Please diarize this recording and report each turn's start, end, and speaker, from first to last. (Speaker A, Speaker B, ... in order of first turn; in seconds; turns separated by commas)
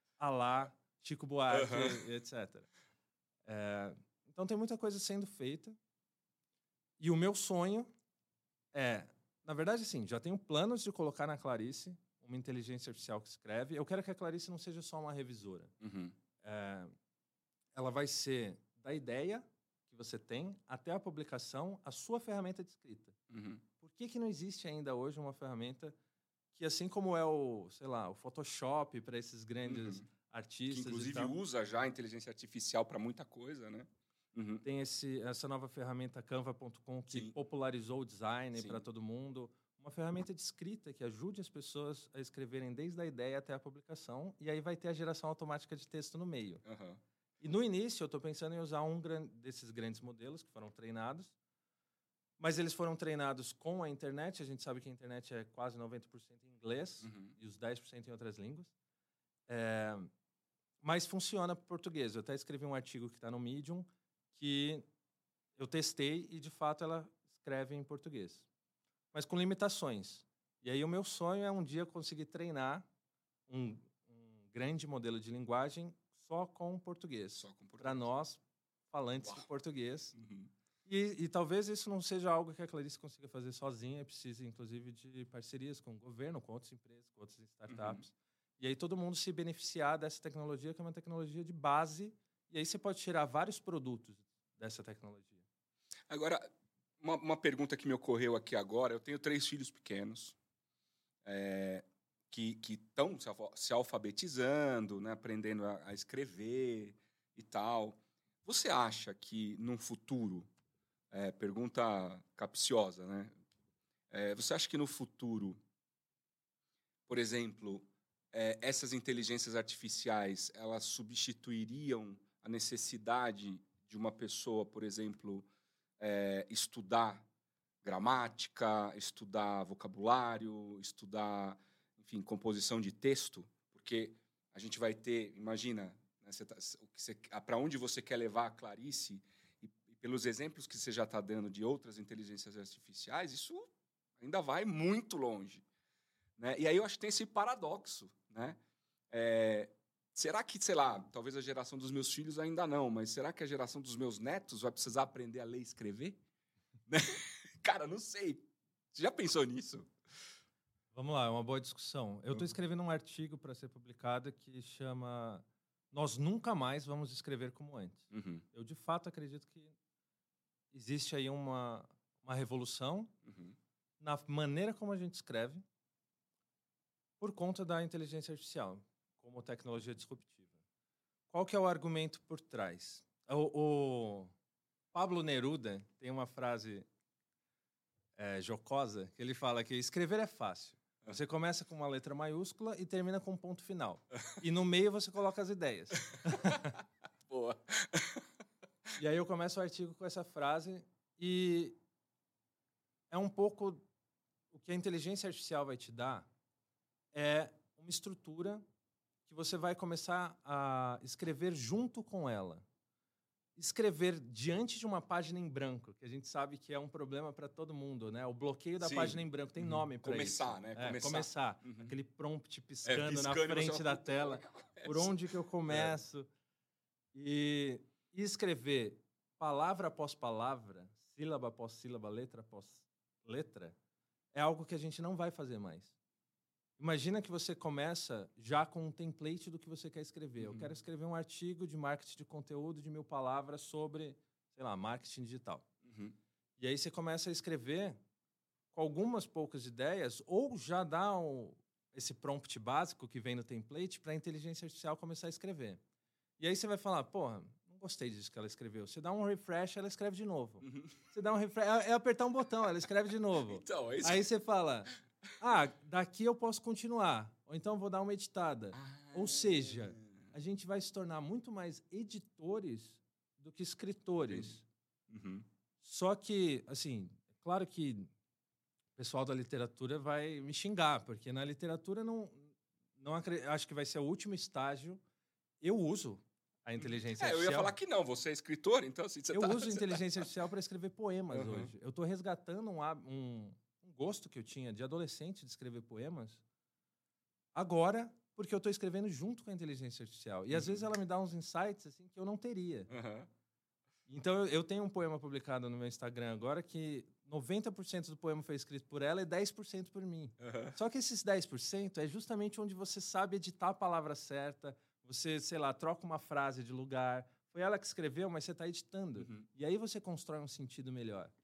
Speaker A: 0.2-2.7, Speaker B: 1.5-2.0, Speaker A: 3.5-5.8, Speaker A: 7.0-7.9, Speaker A: 8.7-15.7, Speaker B: 15.8-16.1, Speaker A: 16.4-16.9, Speaker A: 17.7-23.2, Speaker B: 23.3-23.6, Speaker A: 23.8-25.9, Speaker A: 26.5-31.3, Speaker B: 29.7-30.0, Speaker B: 30.7-34.6, Speaker A: 34.6-46.6, Speaker B: 38.5-38.8, Speaker B: 46.6-47.0, Speaker A: 47.4-51.3, Speaker A: 52.4-58.7, Speaker B: 57.0-57.4, Speaker A: 59.5-60.1, Speaker A: 60.8-64.8, Speaker A: 65.6-68.5, Speaker A: 69.1-72.9, Speaker A: 73.5-80.2, Speaker B: 77.4-78.1, Speaker B: 80.2-80.5, Speaker A: 80.9-95.4, Speaker B: 87.7-88.0, Speaker B: 96.1-96.5, Speaker B: 97.0-100.4, Speaker B: 101.2-110.5, Speaker B: 111.1-113.3, Speaker B: 114.1-115.6, Speaker B: 117.1-125.5, Speaker B: 126.0-127.2, Speaker B: 127.8-145.6, Speaker B: 146.4-148.6, Speaker B: 149.1-156.2, Speaker B: 156.9-159.9, Speaker A: 160.9-169.8, Speaker B: 168.1-168.4, Speaker A: 170.7-173.1, Speaker B: 173.2-173.6, Speaker A: 174.0-175.6, Speaker A: 177.2-180.5, Speaker A: 181.3-184.3, Speaker A: 184.9-186.9, Speaker A: 188.2-196.8, Speaker B: 197.3-198.2, Speaker A: 199.0-201.8, Speaker A: 203.1-203.8, Speaker A: 204.5-206.3, Speaker A: 207.1-208.6, Speaker A: 209.3-212.7, Speaker A: 213.6-226.3, Speaker B: 218.8-221.9, Speaker B: 222.8-225.9, Speaker A: 227.1-233.8, Speaker A: 234.3-235.9, Speaker A: 236.8-245.7, Speaker B: 240.4-240.7, Speaker B: 245.8-246.2, Speaker A: 246.6-248.0, Speaker A: 248.7-255.8, Speaker A: 256.4-274.6, Speaker B: 260.6-261.0, Speaker B: 263.5-264.3, Speaker B: 268.7-270.1, Speaker B: 274.3-274.5, Speaker B: 275.1-275.4, Speaker A: 275.8-278.1, Speaker A: 279.0-285.0, Speaker A: 285.6-287.8, Speaker B: 286.8-290.0, Speaker A: 289.3-296.4, Speaker B: 291.3-291.7, Speaker A: 297.6-302.9, Speaker B: 300.5-300.9, Speaker B: 302.9-303.3, Speaker A: 304.1-321.3, Speaker B: 310.4-310.8, Speaker B: 319.2-319.4